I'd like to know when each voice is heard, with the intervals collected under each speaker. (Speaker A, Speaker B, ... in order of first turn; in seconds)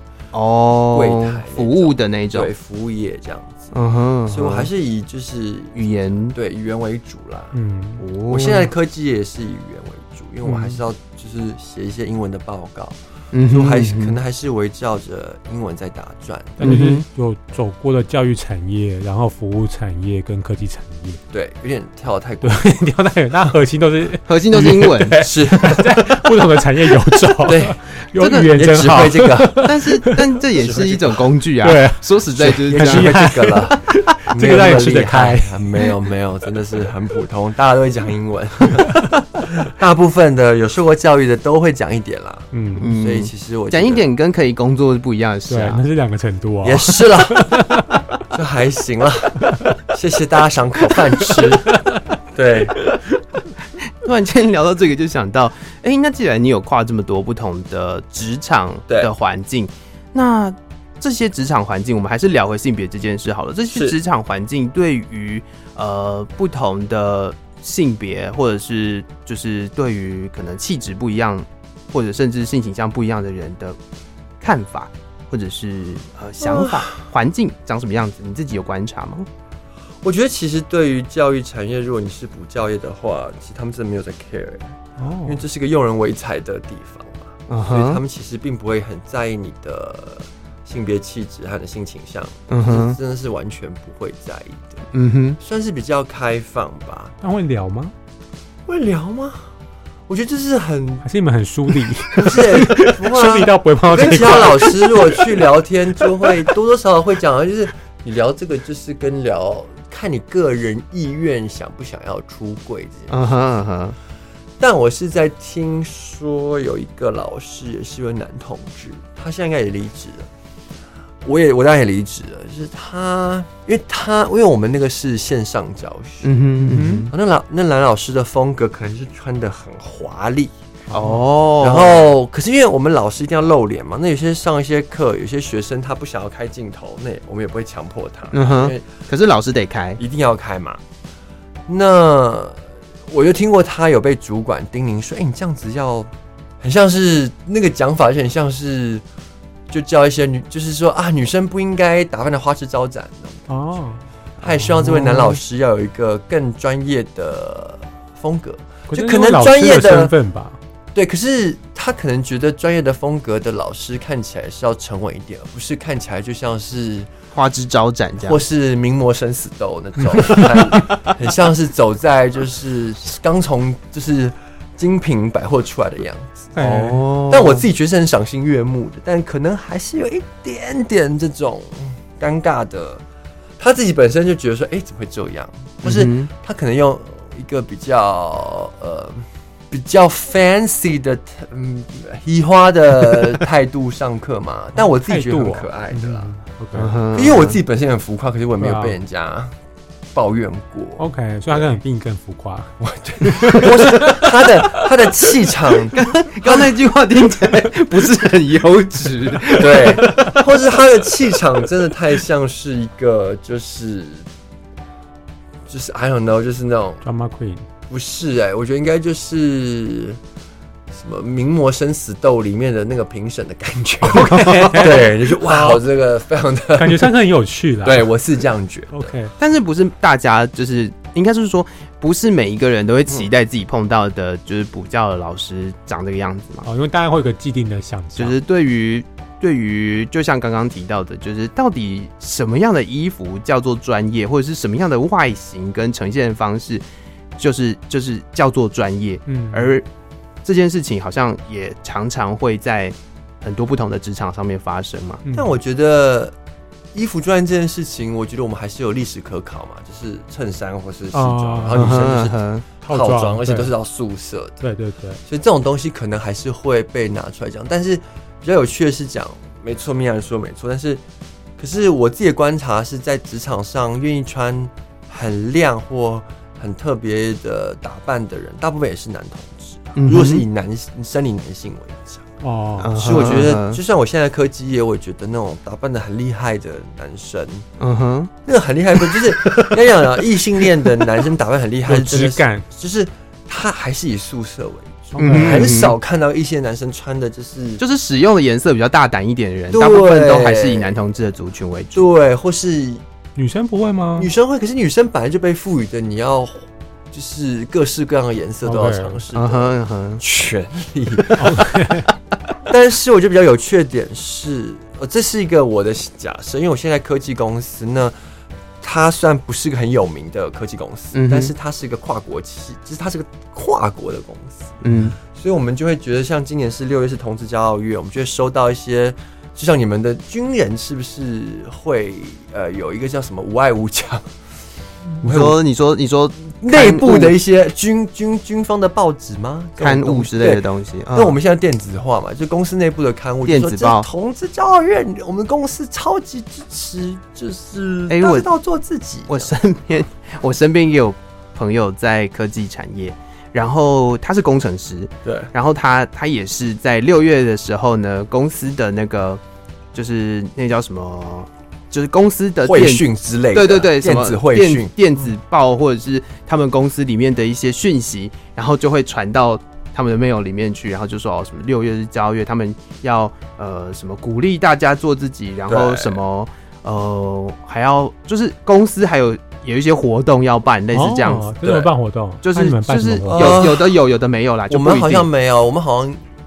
Speaker A: 0.3-2.5, 3.7-4.7, 5.7-6.3, 8.0-8.7, 10.4-10.8, 13.3-14.2, 16.6-17.0, 24.3-25.2, 28.1-28.6, 29.6-33.9, 42.8-45.8, 54.0-73.8, 74.4-79.3, 87.5-88.0, 92.5-93.0, 94.9-95.4, 113.1-114.0, 126.2-127.1, 130.9-132.1, 138.3-140.0, 167.3-168.4, 170.4-170.9, 176.6-177.7, 185.8-186.3, 196.8-197.6, 203.5-204.1, 205.9-210.5, 224.0-225.1, 229.4-236.7, 238.2-246.8, 247.4-249.8, 250.4-255.2, 261.7-262.6, 279.9-280.4, 282.8-283.8, 287.8-288.3, 289.0-289.8, 295.2-295.9, 297.8-302.0, 309.3-310.2, 321.1-321.5, 324.8-325.1, 335.2-337.4, 339.8-341.4, 343.4-344.1, 348.1-348.5, 349.3-359.4, 359.9-381.5, 382.4-385.3
Speaker B: 0.9-3.7, 4.3-7.5, 8.3-16.7, 21.3-22.8, 25.2-26.0, 27.4-27.8, 28.5-29.7, 30.5-31.2, 32.4-33.8, 34.3-44.0, 46.6-47.6, 48.3-51.8, 52.3-52.8, 76.4-77.0, 80.0-94.9, 95.4-97.1, 98.7-99.5, 100.1-101.0, 102.1-113.1, 114.6-120.3, 121.2-126.3, 127.1-130.5, 131.6-138.9, 140.0-140.8, 141.7-146.1, 146.6-149.0, 149.7-153.5, 154.4-160.1, 160.9-167.1, 168.2-176.6, 177.3-183.0, 183.6-196.3, 197.1-199.5, 200.1-201.7, 202.8-206.7, 209.5-214.2, 215.7-217.0, 217.9-220.2, 220.9-227.1, 227.8-229.1, 255.3-256.3, 256.9-264.6, 265.2-271.0, 271.6-282.2, 282.9-287.7, 288.4-297.8, 299.7-300.9, 301.9-303.0, 304.2-311.7, 312.7-318.1, 318.8-334.3, 335.2-335.6, 336.5-349.5, 355.2-355.5, 362.6-364.9, 375.7-376.2, 381.6-381.9, 383.3-383.9, 384.7-386.2
Speaker C: 7.5-8.0, 16.6-21.2, 22.4-30.4, 31.6-35.8, 42.5-42.9, 45.5-48.0, 51.2-52.0, 85.0-85.4, 97.2-97.9, 101.0-105.2, 126.7-127.1, 130.9-131.2, 153.5-155.4, 158.9-160.6, 176.5-177.0, 194.8-197.0, 198.6-199.0, 201.0-202.7, 217.0-217.7, 224.2-225.8, 226.8-228.1, 228.9-229.3, 236.6-238.3, 249.3-249.7, 255.2-255.6, 261.1-262.0, 262.8-263.7, 264.6-265.2, 282.4-283.0, 291.9-292.6, 295.1-295.8, 303.4-304.3, 308.6-309.2, 311.4-312.1, 380.9-383.7